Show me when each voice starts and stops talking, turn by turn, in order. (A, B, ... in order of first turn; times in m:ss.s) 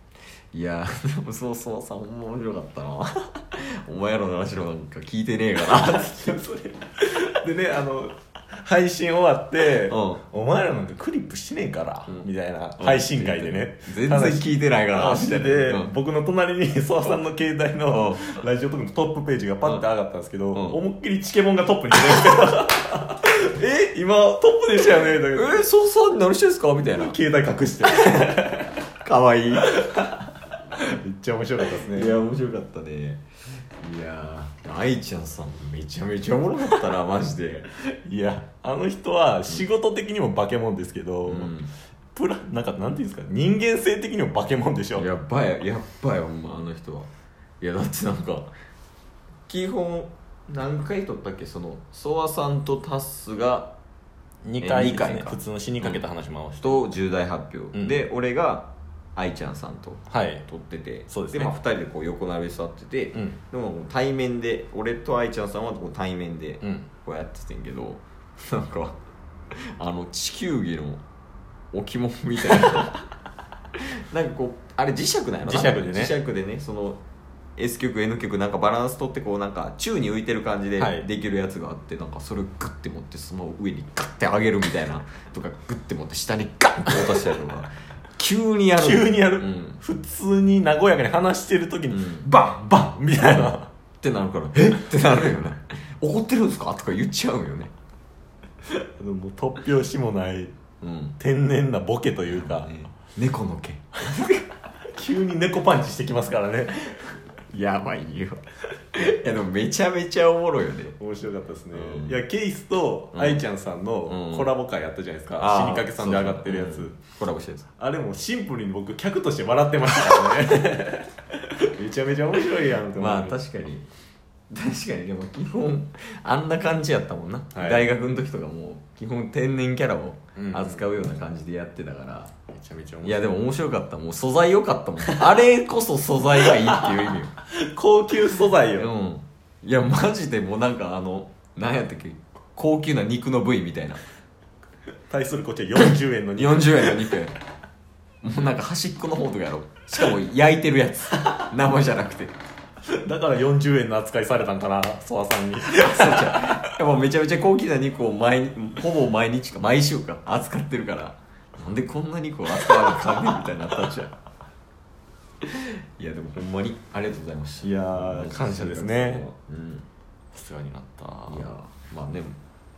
0:00.5-0:06.3 A
0:05.6-0:25.7 B
0:09.9-0:10.2 A
0:12.1-0:15.9 A
0:17.9-0:18.2 A
0:25.3-0:27.2 A
0:26.9-0:28.7 B
0:29.0-0:29.7 A
0:29.6-0:30.1 B
0:30.8-0:32.1 B
0:31.8-0:33.2 A
0:33.8-0:37.7 A
0:38.0-0:41.5 B
0:41.2-0:41.7 A
0:42.1-0:45.0 B
0:44.9-0:47.1 A
0:47.6-0:48.5 A
0:49.5-0:53.7 A
0:54.4-0:56.8 B
0:54.6-0:56.0 A
0:56.6-1:09.0 A
1:00.1-1:00.4 B
1:01.1-1:01.5 B
1:06.6-1:06.9 B
1:09.5-1:11.0 A
1:11.7-1:13.0 A
1:13.8-1:17.0 A
1:15.4-1:16.1 B
1:17.6-1:29.8 A
1:20.8-1:21.1 B
1:26.9-1:27.1 B
1:28.8-1:33.7 B
1:31.9-1:32.3 A
1:34.0-1:37.7 A
1:39.0-1:40.5 B
1:40.8-1:41.2 A
1:41.2-1:42.7 B
1:42.3-1:44.5 A
1:44.9-1:47.2 B
1:47.5-1:48.4 A
1:48.9-1:51.0 A
1:51.0-1:57.0 B
1:51.7-1:52.2 A
1:53.1-1:53.4 A
1:54.1-1:54.5 A
1:55.4-1:57.6 A
1:57.8-2:03.4 B
2:02.9-2:03.9 A
2:04.5-2:12.3 A
2:07.5-2:07.9 B
2:10.4-2:10.9 B
2:12.5-2:13.3 B
2:13.0-2:17.3 A
2:15.1-2:15.3 B
2:16.4-2:18.9 B
2:18.7-2:24.0 A
2:25.1-2:27.2 B
2:25.8-2:27.4 A
2:28.2-2:32.3 A
2:33.0-2:36.7 B
2:35.6-2:44.1 A
2:45.4-2:49.9 A
2:47.6-2:49.3 B
2:50.3-2:51.5 B
2:51.3-2:52.4 A